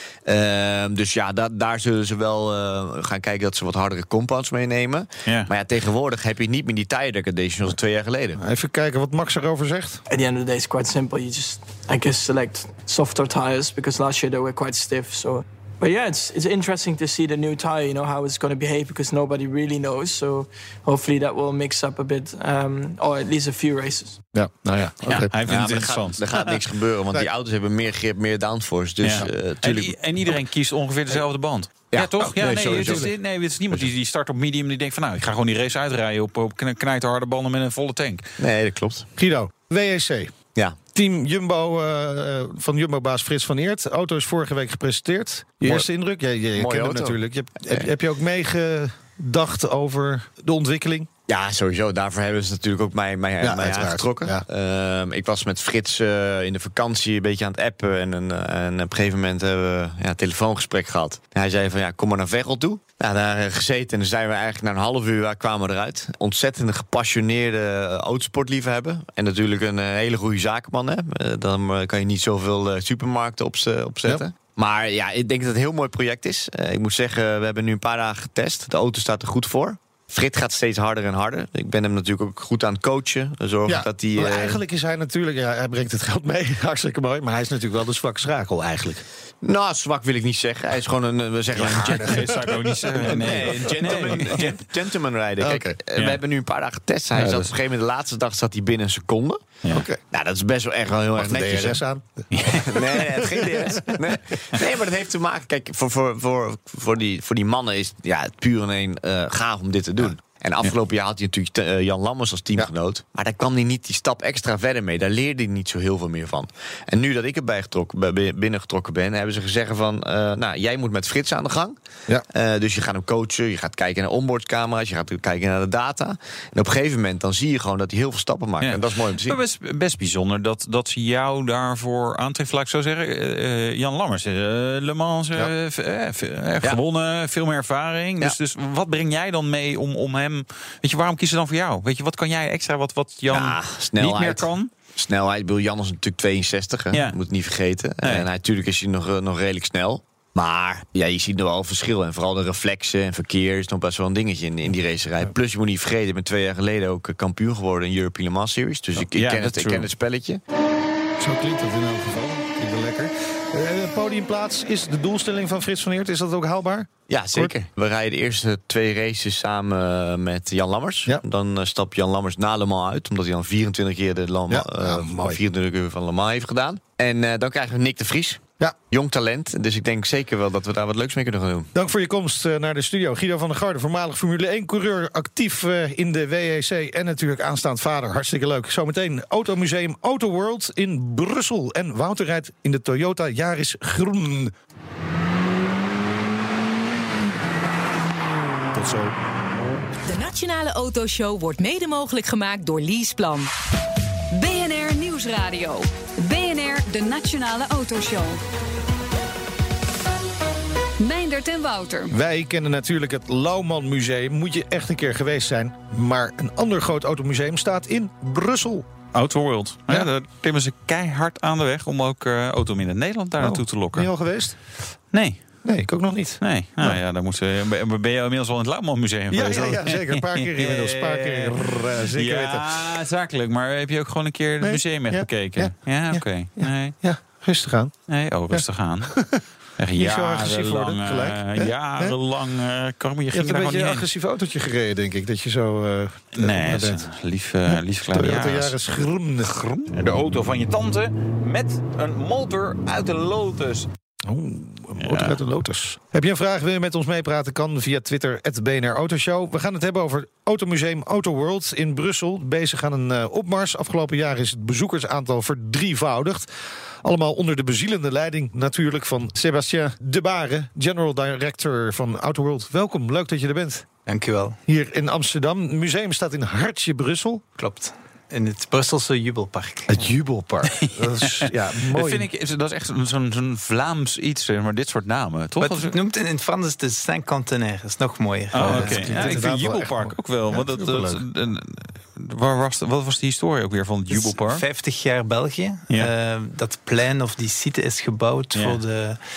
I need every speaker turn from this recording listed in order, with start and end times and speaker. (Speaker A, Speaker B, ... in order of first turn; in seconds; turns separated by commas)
Speaker A: 0.2-8.4, Speaker B: 8.4-10.0, Speaker C: 10.1-24.2, Speaker B: 24.3-25.3, Speaker D: 25.1-26.6, Speaker A: 25.4-30.0, Speaker D: 29.0-38.3, Speaker A: 31.9-33.1, Speaker B: 32.4-33.1, Speaker A: 38.4-39.1, Speaker B: 39.2-40.3, Speaker B: 40.9-51.1, Speaker A: 45.6-45.9, Speaker A: 46.5-47.9, Speaker A: 51.3-84.6, Speaker B: 53.4-54.4, Speaker B: 83.7-89.0, Speaker A: 89.4-92.2, Speaker B: 91.5-94.4, Speaker D: 91.6-94.6, Speaker A: 93.1-99.5, Speaker B: 95.4-95.8, Speaker D: 97.1-97.5, Speaker B: 99.7-100.0, Speaker A: 100.1-101.8, Speaker B: 101.2-104.1, Speaker D: 102.3-102.6, Speaker A: 102.5-121.8, Speaker A: 122.3-129.4, Speaker D: 128.6-144.7, Speaker A: 143.3-160.4, Speaker D: 146.9-147.2, Speaker D: 148.0-148.3, Speaker D: 159.0-159.9, Speaker B: 161.2-167.5, Speaker A: 167.1-181.7, Speaker B: 174.5-175.4, Speaker B: 181.7-194.5, Speaker B: 198.7-199.2, Speaker E: 200.1-203.5, Speaker F: 204.3-208.4, Speaker F: 211.0-212.1, Speaker B: 212.1-218.8, Speaker D: 219.1-224.1, Speaker B: 223.4-224.7, Speaker D: 225.1-225.5, Speaker B: 225.6-227.0, Speaker D: 226.4-237.0, Speaker B: 229.3-232.7, Speaker B: 234.6-237.9, Speaker D: 238.1-244.1, Speaker B: 238.5-239.4, Speaker B: 239.9-242.2, Speaker B: 243.3-247.1, Speaker D: 246.3-248.8, Speaker B: 247.7-249.6, Speaker D: 249.4-253.9, Speaker B: 254.2-266.5, Speaker D: 255.0-255.4, Speaker B: 267.0-273.9, Speaker G: 274.1-274.6, Speaker B: 274.7-277.4, Speaker G: 277.6-280.1, Speaker B: 279.9-282.2, Speaker D: 280.7-285.9, Speaker G: 285.6-289.4, Speaker D: 288.5-294.6, Speaker B: 288.6-291.2, Speaker G: 294.1-299.2, Speaker D: 298.5-298.8